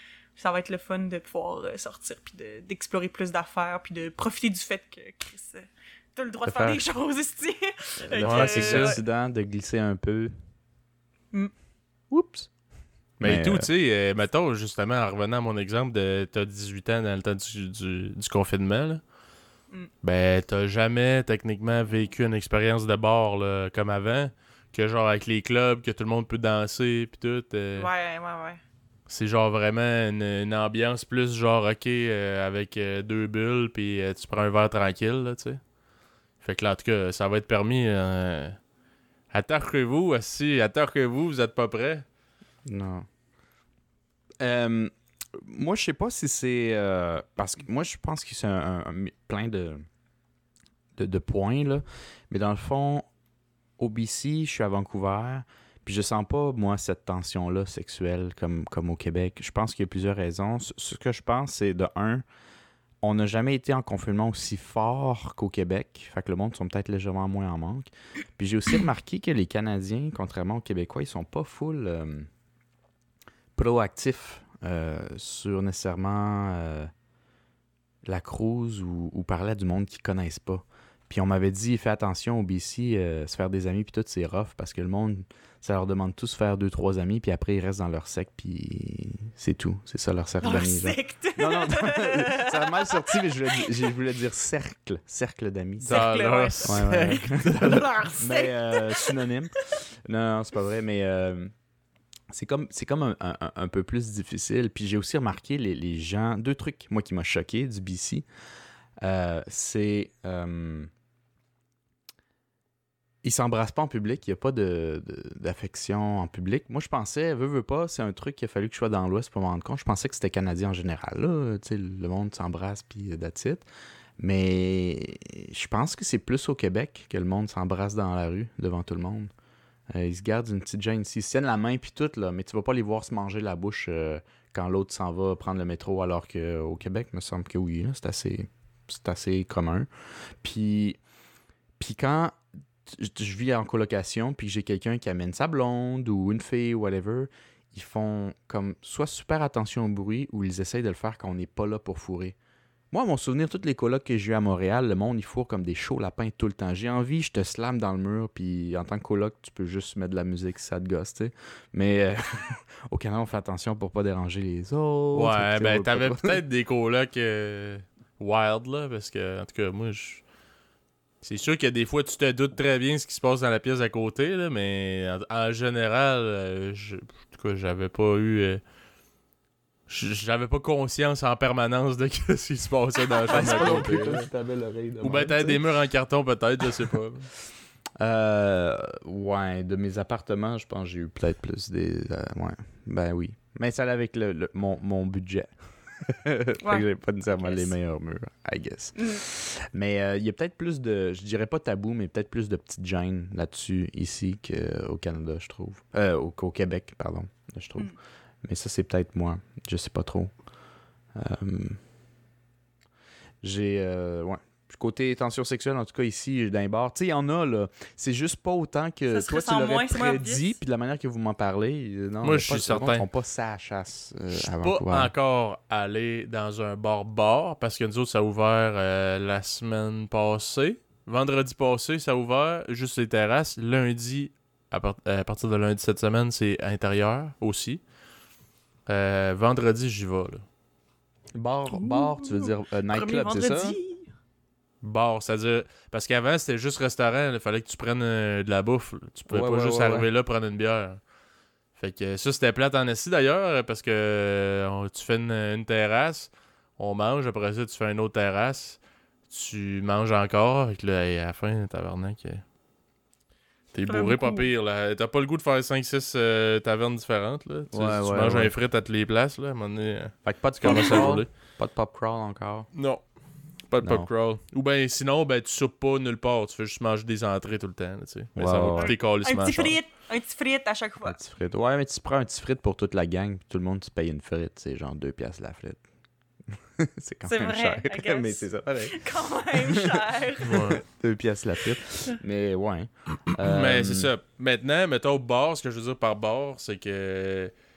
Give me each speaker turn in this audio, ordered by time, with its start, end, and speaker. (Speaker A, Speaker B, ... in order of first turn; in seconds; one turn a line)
Speaker A: 0.3-9.0
Speaker B: 6.5-6.8
Speaker B: 8.0-10.3
Speaker C: 8.2-9.0
Speaker B: 12.1-12.5
Speaker B: 13.2-13.7
Speaker C: 13.2-19.0
Speaker C: 20.0-27.9
Speaker A: 27.8-28.6
Speaker C: 29.1-35.6
Speaker C: 36.4-38.6
Speaker C: 39.3-42.0
Speaker B: 42.6-43.0
Speaker B: 44.4-49.9
Speaker B: 51.0-53.1
Speaker B: 53.8-62.2
Speaker B: 63.0-72.3
Speaker B: 73.5-76.9
Speaker B: 78.0-96.0
Speaker A: 90.4-93.6
Speaker A: 95.8-99.2
Speaker C: 95.9-97.9
Speaker B: 96.6-101.5
Speaker B: 102.3-108.2
Speaker B: 109.0-110.9
Speaker B: 113.2-123.7
Speaker B: 124.2-129.3
Speaker B: 129.9-139.9
Speaker B: 140.4-141.0
Speaker B: 141.8-152.3
Speaker B: 152.9-166.4
Speaker C: 165.1-170.2
Speaker C: 171.2-178.6
Speaker C: 179.9-184.3
Speaker A: 183.2-183.6
Speaker B: 183.3-185.6
Speaker C: 185.0-187.3
Speaker B: 188.0-210.3
Speaker A: 197.4-197.7
Speaker A: 198.9-199.2
Speaker B: 211.1-211.8
Speaker B: 213.4-225.1
Speaker A: 219.1-220.5
Speaker C: 222.2-223.1
Speaker C: 224.3-237.8
Speaker C: 238.9-240.4
Speaker B: 241.3-243.8
Speaker A: 241.7-244.1
Speaker C: 244.8-251.0
Speaker B: 249.3-250.1
Speaker C: 251.8-258.8
Speaker C: 259.3-262.4
Speaker C: 263.7-271.3
Speaker A: 263.9-264.5
Speaker B: 267.7-268.5
Speaker B: 270.2-272.7
Speaker C: 272.7-279.8
Speaker B: 273.8-274.1
Speaker B: 278.4-278.9
Speaker A: 278.7-281.2
Speaker B: 281.1-285.8
Speaker B: 286.5-289.0
Speaker A: 287.2-290.7
Speaker B: 289.5-294.1
Speaker C: 290.4-290.8
Speaker C: 293.4-297.5